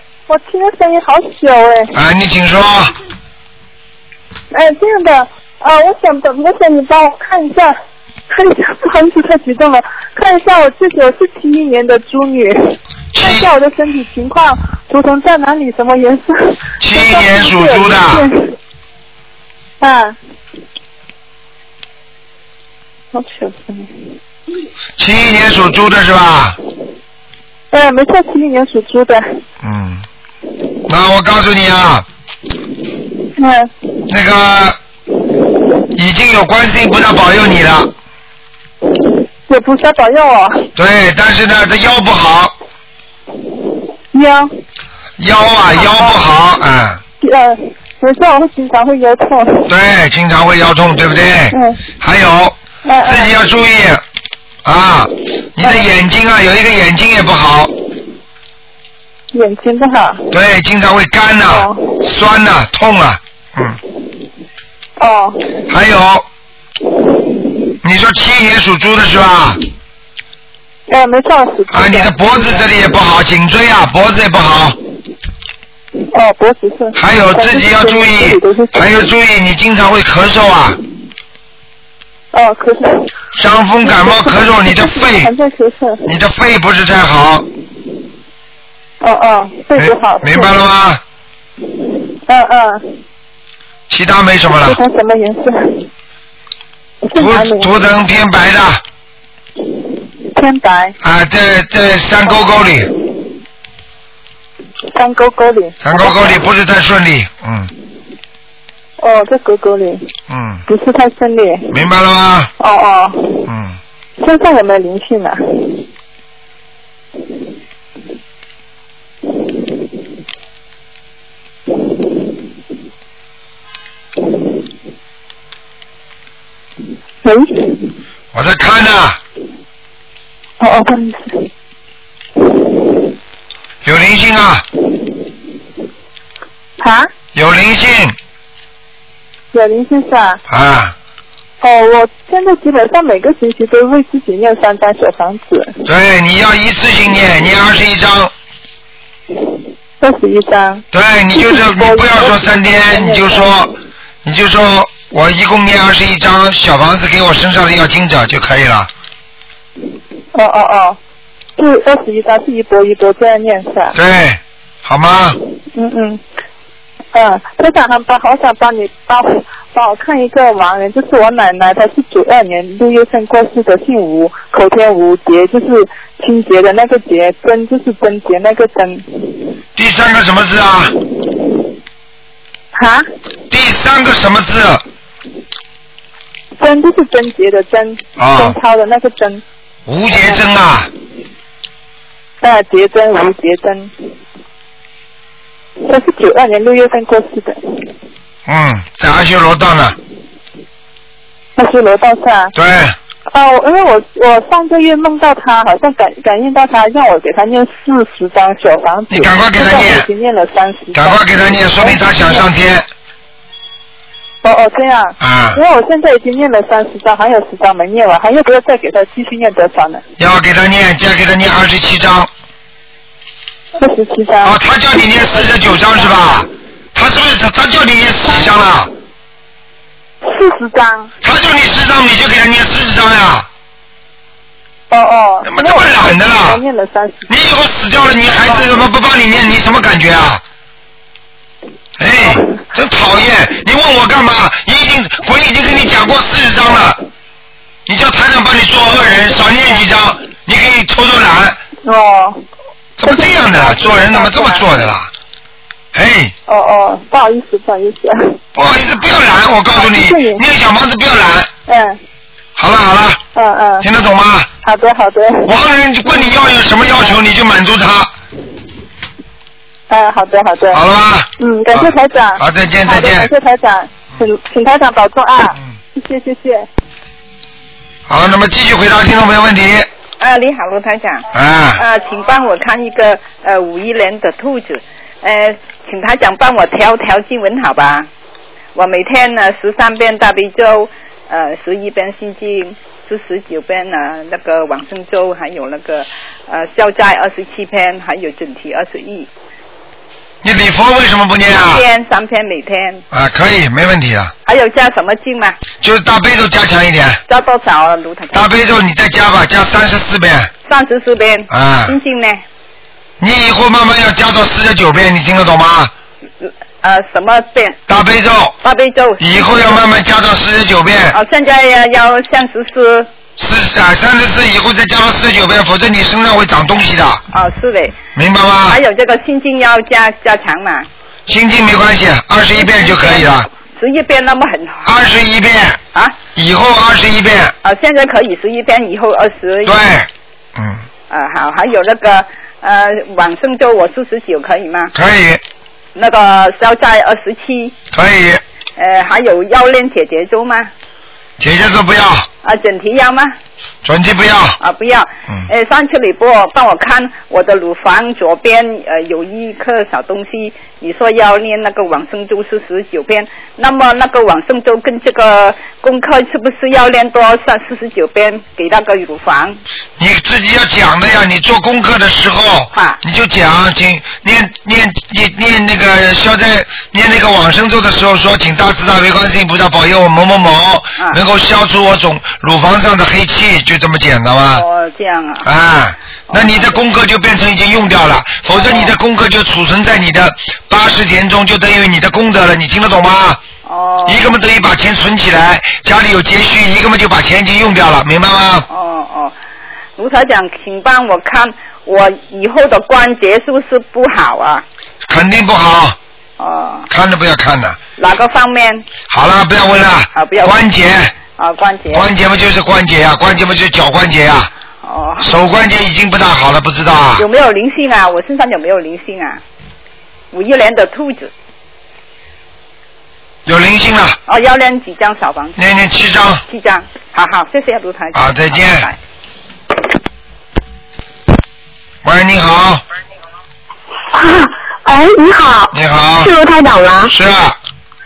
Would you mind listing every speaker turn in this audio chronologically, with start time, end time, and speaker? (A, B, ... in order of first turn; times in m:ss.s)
0:00.3-0:01.9 A
0:01.9-0:02.9 B
0:04.5-0:07.8 A
0:08.3-0:18.5 A
0:13.1-0:13.5 B
0:16.8-0:18.2 B
0:19.8-0:20.2 A
0:23.1-0:23.9 A
0:25.0-0:26.6 B
0:27.7-0:29.2 A
0:29.6-0:30.0 B
0:30.9-0:32.0 B
0:33.4-0:33.7 A
0:34.1-0:34.8 B
0:35.9-0:37.9 B
0:39.5-0:40.7 A
0:40.8-0:42.5 B
0:44.1-0:44.5 A
0:45.2-0:47.0 B
0:45.8-0:46.2 A
0:47.2-0:49.7 A
0:49.7-0:54.0 B
0:51.5-0:51.8 A
0:52.8-0:53.3 A
0:54.6-0:57.7 B
0:59.3-1:00.3 A
1:00.3-1:03.8 B
1:01.5-1:02.0 A
1:05.0-1:05.6 A
1:05.7-1:06.2 B
1:07.8-1:09.6 B
1:10.9-1:12.6 A
1:11.7-1:14.8 B
1:16.1-1:19.0 A
1:17.0-1:20.8 B
1:22.3-1:23.1 A
1:23.3-1:25.3 B
1:23.8-1:26.1 A
1:26.0-1:27.5 B
1:29.0-1:30.5 A
1:29.8-1:31.0 B
1:32.2-1:32.8 A
1:33.9-1:34.8 B
1:34.5-1:35.9 A
1:37.0-1:37.7 A
1:37.2-1:38.8 B
1:40.3-1:40.9 A
1:41.0-1:42.9 B
1:44.9-1:46.4 A
1:45.8-1:47.7 B
1:49.0-1:50.1 A
1:50.3-1:50.6 B
1:50.7-1:51.7 A
1:51.7-1:52.5 B
1:52.6-1:53.4 A
1:53.4-1:53.8 B
1:54.2-1:55.7 A
2:07.2-2:07.8 A
2:08.3-2:09.2 B
2:10.6-2:11.5 A
2:13.8-2:14.6 B
2:16.8-2:17.1 A
2:17.3-2:18.2 B
2:19.5-2:20.4 A
2:20.5-2:20.9 B
2:21.6-2:25.8 A
2:25.8-2:28.3 B
2:30.0-2:33.5 A
2:30.9-2:38.9 B
2:40.3-2:41.0 A
2:41.6-2:43.9 A
2:43.9-2:45.4 B
2:45.7-2:46.2 A
2:47.1-2:59.4 A
2:59.8-3:01.0 B
3:02.7-3:03.0 A
3:03.5-3:04.8 B
3:06.6-3:09.4 A
3:08.2-3:08.5 B
3:09.8-3:10.9 B
3:12.4-3:13.9 A
3:15.8-3:17.8 A
3:18.5-3:20.0 B
3:21.6-3:22.5 A
3:22.5-3:23.0 B
3:23.3-3:32.4 A
3:29.1-3:30.1 B
3:30.9-3:32.9 B
3:34.4-3:40.0 A
3:35.2-3:35.6 B
3:40.2-3:42.3 B
3:43.8-3:44.6 A
3:44.4-3:48.9 B
3:50.2-3:51.1 A
3:51.2-3:53.5 B
3:54.9-3:57.3 A
3:55.4-3:56.6 B
3:57.3-4:00.4 B
3:58.4-3:58.8 A
4:02.0-4:07.0 B
4:07.8-4:11.6 B
4:11.8-4:12.4 A
4:13.0-4:15.1 B
4:13.0-4:14.9 A
4:15.9-4:16.3 B
4:16.5-4:18.4 A
4:18.5-4:21.5 B
4:19.7-4:20.4 A
4:21.7-4:22.0 A
4:22.6-4:23.2 B
4:23.3-4:23.8 A
4:23.8-4:24.5 B
4:24.6-4:25.5 A
4:25.4-4:28.1 B
4:29.9-4:30.8 A
4:30.7-4:33.3 B
4:31.4-4:36.7 A
4:38.1-4:39.9 B
4:40.2-4:41.2 C
4:41.3-4:41.8 B
4:41.8-4:48.1 C
4:48.7-4:59.3 C
5:00.4-5:01.8 B
5:01.5-5:03.0 C
5:03.1-5:04.3 B
5:04.4-5:05.6 C
5:05.8-5:07.2 B
5:07.3-5:08.5 C
5:08.3-5:10.5 B
5:10.6-5:12.4 C
5:11.5-5:11.9 B
5:13.2-5:15.9 B
5:16.4-5:17.8 C
5:17.9-5:18.6 B
5:18.6-5:19.8 C
5:19.2-5:21.2 B
5:21.1-5:23.1 C
5:23.4-5:27.2 B
5:27.3-5:28.0 C
5:28.1-5:28.8 B
5:28.7-5:30.9 C
5:31.3-5:33.5 B
5:32.6-5:34.9 C
5:34.8-5:35.8 B
5:36.3-5:37.5 B
5:37.6-5:39.8 C
5:39.6-5:40.8 B
5:41.1-5:44.9 C
5:44.9-5:45.4 B
5:45.9-5:47.7 C
5:47.9-5:48.4 B
5:48.8-5:50.7 C
5:51.4-5:52.3 B
5:52.4-5:53.3 C
5:53.8-5:54.6 B
5:54.6-6:09.6 C
6:10.0-6:24.6 B
6:12.7-6:13.0 C
6:24.5-6:25.4 C
6:25.4-6:33.4 B
6:26.3-6:26.8 C
6:28.5-6:28.9 C
6:33.6-6:34.3 C
6:34.0-6:38.6 B
6:38.7-6:39.3 C
6:40.0-6:44.6 C
6:45.0-6:46.0 B
6:46.4-6:46.9 C
6:46.9-6:47.8 B
6:48.0-6:48.9 C
6:49.1-6:51.1 B
6:50.1-6:50.6 C
6:51.4-6:52.1 C
6:51.9-6:54.5 B
6:54.8-6:55.3 C
6:55.2-6:57.2 B
6:57.2-6:59.4 C
7:00.3-7:01.3 C
7:03.4-7:04.2 B
7:04.3-7:05.6 C
7:05.6-7:06.4 B
7:06.5-7:09.0 C
7:08.1-7:08.9 B
7:12.0-7:12.8 B
7:14.1-7:17.1 D
7:15.7-7:16.3 B
7:17.1-7:17.6 B